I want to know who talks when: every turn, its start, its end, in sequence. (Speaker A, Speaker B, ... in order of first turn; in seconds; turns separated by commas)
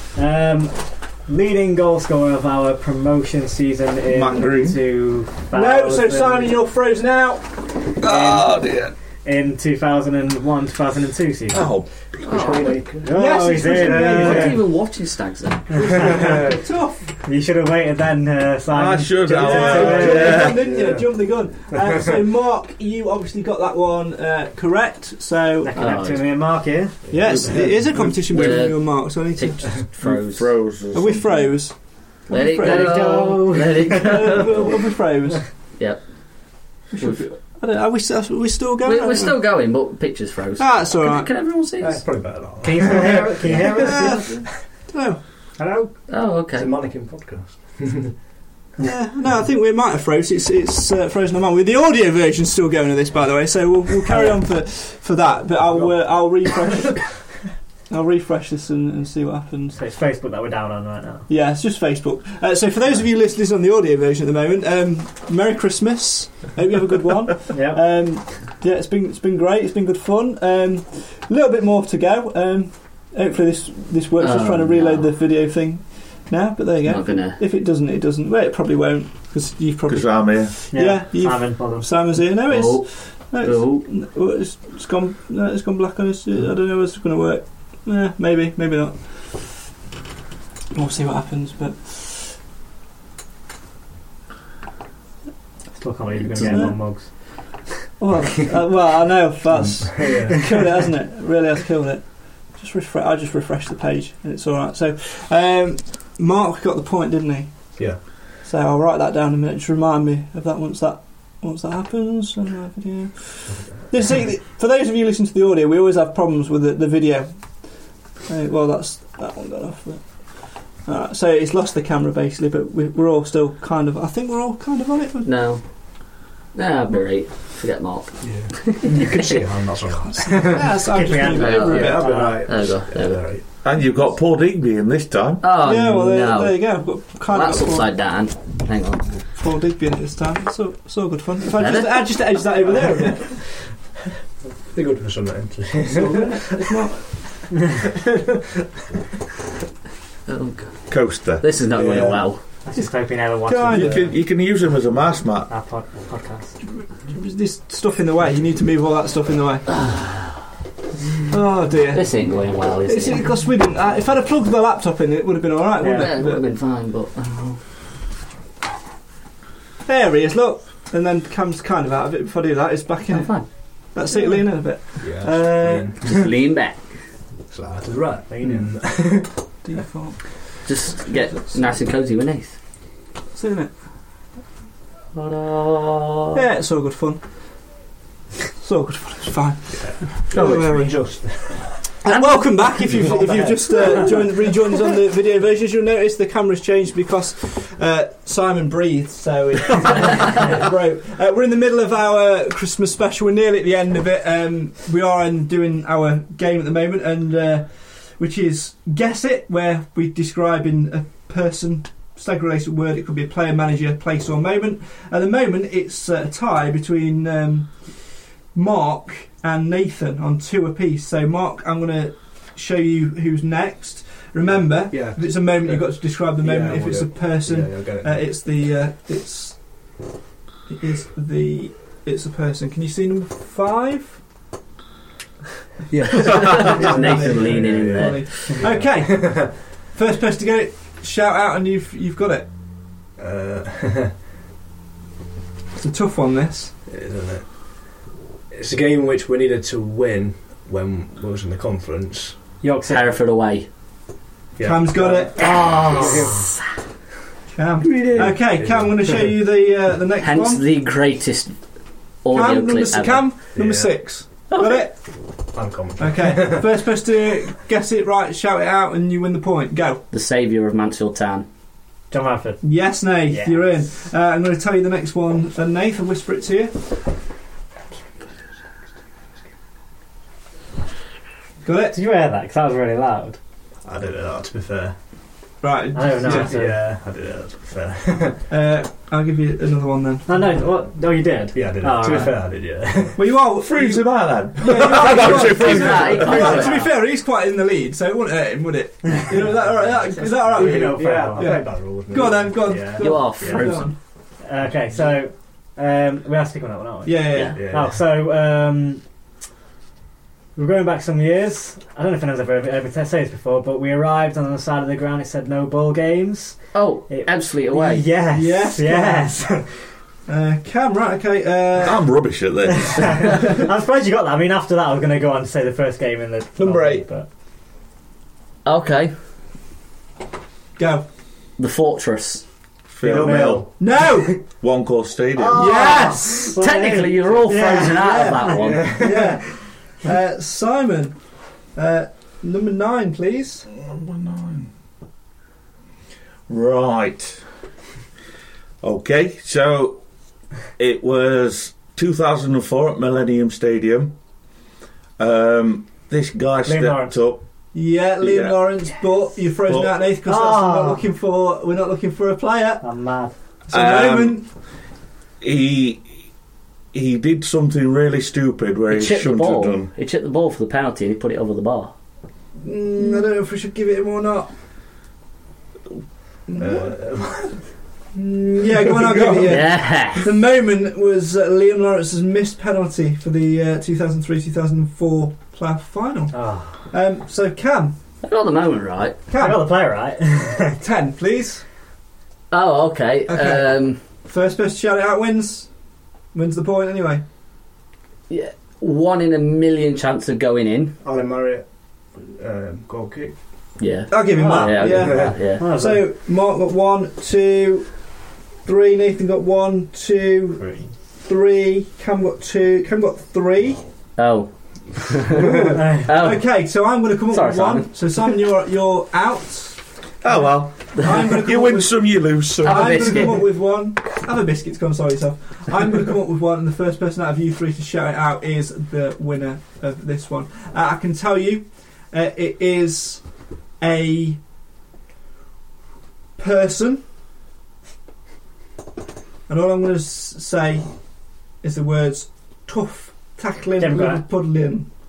Speaker A: 0.1-6.6, Speaker B: 4.1-4.8, Speaker C: 5.5-7.6, Speaker B: 8.0-8.9, Speaker A: 8.0-8.6, Speaker A: 9.2-11.7, Speaker B: 11.5-12.2, Speaker D: 12.2-12.8, Speaker E: 12.3-13.4, Speaker A: 13.0-14.7, Speaker C: 13.1-14.6, Speaker D: 13.7-15.8, Speaker A: 15.7-16.4, Speaker C: 15.8-17.1, Speaker E: 15.9-16.6, Speaker A: 17.2-20.5, Speaker B: 18.7-20.7, Speaker C: 19.4-25.7, Speaker E: 19.7-21.2, Speaker A: 25.6-27.7, Speaker D: 25.8-26.2, Speaker E: 27.1-27.4, Speaker C: 27.1-29.6, Speaker B: 27.3-28.5, Speaker D: 28.1-30.6, Speaker B: 30.0-31.6, Speaker C: 30.9-33.1, Speaker D: 32.3-34.7, Speaker A: 32.5-34.3, Speaker C: 33.9-35.5, Speaker D: 35.8-36.0, Speaker D: 36.9-37.3, Speaker C: 36.9-39.4, Speaker D: 38.8-42.0, Speaker C: 40.6-41.3, Speaker E: 41.8-44.5, Speaker A: 42.6-44.4, Speaker C: 43.7-45.2, Speaker E: 45.6-48.1, Speaker D: 46.1-46.7, Speaker C: 48.8-59.8, Speaker A: 54.1-54.4, Speaker E: 55.6-56.1, Speaker A: 59.8-61.3, Speaker C: 61.3-89.6, Speaker A: 67.5-68.2, Speaker D: 74.2-75.1, Speaker D: 76.8-77.4, Speaker B: 79.9-80.5, Speaker A: 80.7-81.9, Speaker D: 82.5-83.9, Speaker C: 90.7-92.3, Speaker A: 95.8-97.7, Speaker D: 96.3-96.6, Speaker C: 96.4-96.8, Speaker C: 98.0-117.7, Speaker E: 99.6-100.5, Speaker E: 107.8-108.1, Speaker C: 118.3-125.3, Speaker D: 125.2-129.3, Speaker E: 128.2-130.8, Speaker C: 130.0-132.0, Speaker A: 130.7-132.5, Speaker D: 131.3-133.2, Speaker E: 131.6-133.5, Speaker B: 133.6-135.4, Speaker D: 135.4-139.2, Speaker C: 135.6-137.9, Speaker C: 139.3-143.6, Speaker D: 141.6-142.2, Speaker E: 144.7-146.7, Speaker C: 145.9-147.6, Speaker D: 150.3-152.4, Speaker B: 150.9-152.2, Speaker E: 151.7-152.3, Speaker A: 152.7-154.1, Speaker C: 153.4-154.1, Speaker B: 153.8-155.5, Speaker A: 155.5-156.6, Speaker C: 156.8-159.8, Speaker D: 159.9-160.2, Speaker C: 161.3-166.5, Speaker D: 161.9-163.3, Speaker A: 165.8-166.1, Speaker D: 165.9-167.6, Speaker C: 169.8-175.9, Speaker D: 173.1-173.5, Speaker E: 175.0-176.3, Speaker D: 176.0-177.1, Speaker E: 177.5-179.4, Speaker C: 179.6-181.5, Speaker D: 180.7-182.6, Speaker C: 183.3-183.7, Speaker D: 185.1-186.4, Speaker C: 186.3-187.2, Speaker C: 188.6-191.2, Speaker E: 189.7-191.9, Speaker D: 190.4-190.6, Speaker C: 192.0-229.9, Speaker D: 192.1-192.4, Speaker E: 193.1-194.2, Speaker E: 224.4-228.3, Speaker C: 230.7-234.2, Speaker E: 235.9-239.7, Speaker C: 236.1-242.6, Speaker D: 236.2-238.6, Speaker E: 243.2-244.1, Speaker C: 245.8-246.7, Speaker E: 246.9-252.5, Speaker A: 252.6-253.2, Speaker D: 252.9-253.7, Speaker E: 254.6-256.5, Speaker C: 254.6-255.7, Speaker A: 255.4-256.5, Speaker C: 257.5-260.7, Speaker D: 257.9-258.4, Speaker E: 257.9-259.4, Speaker D: 260.2-263.3, Speaker C: 262.3-265.4, Speaker E: 263.5-264.1, Speaker D: 264.5-264.9, Speaker E: 265.2-266.8, Speaker C: 266.0-270.0, Speaker D: 270.1-271.5, Speaker A: 272.1-273.8, Speaker C: 272.6-276.8, Speaker C: 281.6-282.0, Speaker A: 281.9-283.4, Speaker E: 283.9-285.0, Speaker C: 285.6-286.5, Speaker A: 285.9-286.8, Speaker E: 286.2-288.4, Speaker C: 288.5-290.4, Speaker A: 290.3-292.4, Speaker E: 291.5-293.4, Speaker C: 293.2-304.0, Speaker B: 293.6-296.5, Speaker D: 295.2-296.9, Speaker A: 296.2-296.9, Speaker E: 296.4-296.7, Speaker E: 299.4-303.9, Speaker A: 300.5-301.7, Speaker D: 303.0-303.9, Speaker A: 304.4-309.0, Speaker E: 304.6-305.1, Speaker C: 307.1-307.6, Speaker E: 307.5-308.0, Speaker A: 310.6-319.9, Speaker D: 316.7-318.1, Speaker C: 318.3-319.6, Speaker C: 320.3-322.0, Speaker B: 321.8-323.4, Speaker A: 322.8-327.3, Speaker C: 326.6-327.1, Speaker D: 328.6-329.1, Speaker C: 330.8-331.1, Speaker D: 331.6-332.4, Speaker B: 332.9-333.8, Speaker A: 333.0-333.7, Speaker E: 333.1-333.6, Speaker C: 333.8-334.4, Speaker B: 334.6-335.8, Speaker A: 335.4-339.2, Speaker C: 335.6-336.6, Speaker D: 336.6-338.9, Speaker C: 337.9-341.2, Speaker E: 338.6-339.3, Speaker C: 341.8-343.7, Speaker B: 343.7-344.7, Speaker B: 346.5-347.4, Speaker B: 348.8-350.0, Speaker B: 350.8-354.1, Speaker B: 355.2-357.4, Speaker A: 356.6-357.2, Speaker C: 357.7-362.9, Speaker B: 358.2-358.9, Speaker B: 359.7-360.0, Speaker A: 360.2-361.1, Speaker A: 362.8-363.4, Speaker C: 363.7-364.5, Speaker B: 363.7-364.5, Speaker B: 365.4-366.1, Speaker B: 366.9-369.9, Speaker D: 368.9-371.9, Speaker C: 372.6-374.5, Speaker C: 376.5-376.9, Speaker E: 376.6-377.6, Speaker C: 378.1-387.9, Speaker E: 379.0-379.6, Speaker D: 379.5-380.2, Speaker A: 386.3-386.9, Speaker D: 388.2-389.2, Speaker C: 389.3-389.7, Speaker A: 389.4-390.8, Speaker C: 390.8-391.6, Speaker D: 392.5-394.0, Speaker C: 393.3-395.8, Speaker C: 396.3-397.2, Speaker D: 398.3-400.9, Speaker E: 401.0-403.4, Speaker D: 403.8-405.6, Speaker C: 404.1-408.1, Speaker A: 404.4-404.9, Speaker E: 404.8-405.6, Speaker A: 405.6-406.0, Speaker C: 408.6-410.7, Speaker A: 410.6-410.9, Speaker C: 411.2-413.8, Speaker D: 414.2-415.4, Speaker E: 415.4-415.8, Speaker C: 415.4-419.8, Speaker A: 415.7-416.1, Speaker D: 416.0-416.6, Speaker D: 417.3-417.9, Speaker B: 420.2-423.3, Speaker C: 421.0-433.3, Speaker D: 422.6-423.4, Speaker C: 433.8-434.4, Speaker C: 436.4-437.0, Speaker C: 439.5-440.9, Speaker C: 441.6-444.9, Speaker A: 443.8-444.2